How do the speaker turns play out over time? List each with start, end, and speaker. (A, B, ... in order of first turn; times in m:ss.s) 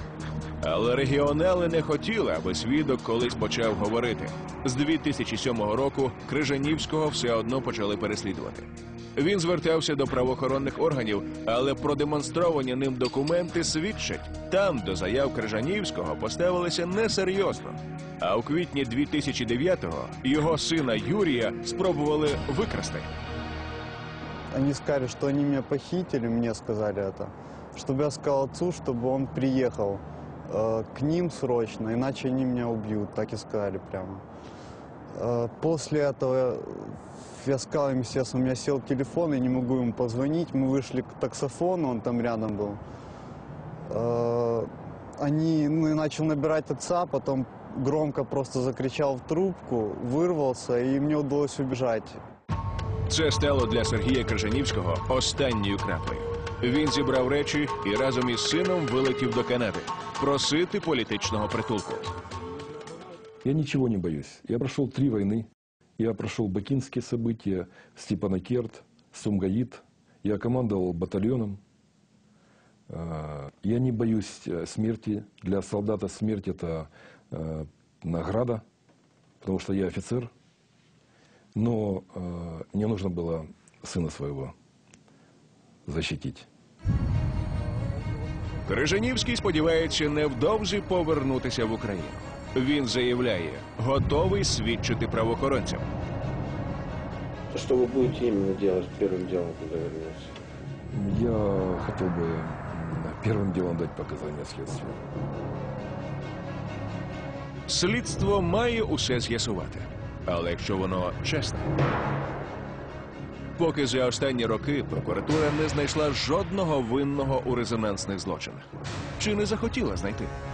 0:00.6-0:23.1 A
0:24.5-0:34.2 B
0:35.1-0:42.8 B
0:43.9-0:44.7 B
0:45.2-0:52.2 B
0:53.1-1:02.1 A
1:03.4-1:11.6 C
1:12.9-1:18.6 C
1:19.4-1:20.3 C
1:21.5-1:24.5 C
1:25.8-1:26.5 C
1:28.6-1:35.8 A
1:37.5-1:40.3 D
1:40.9-1:45.0 C
1:47.7-1:51.6 A
1:53.6-2:00.3 A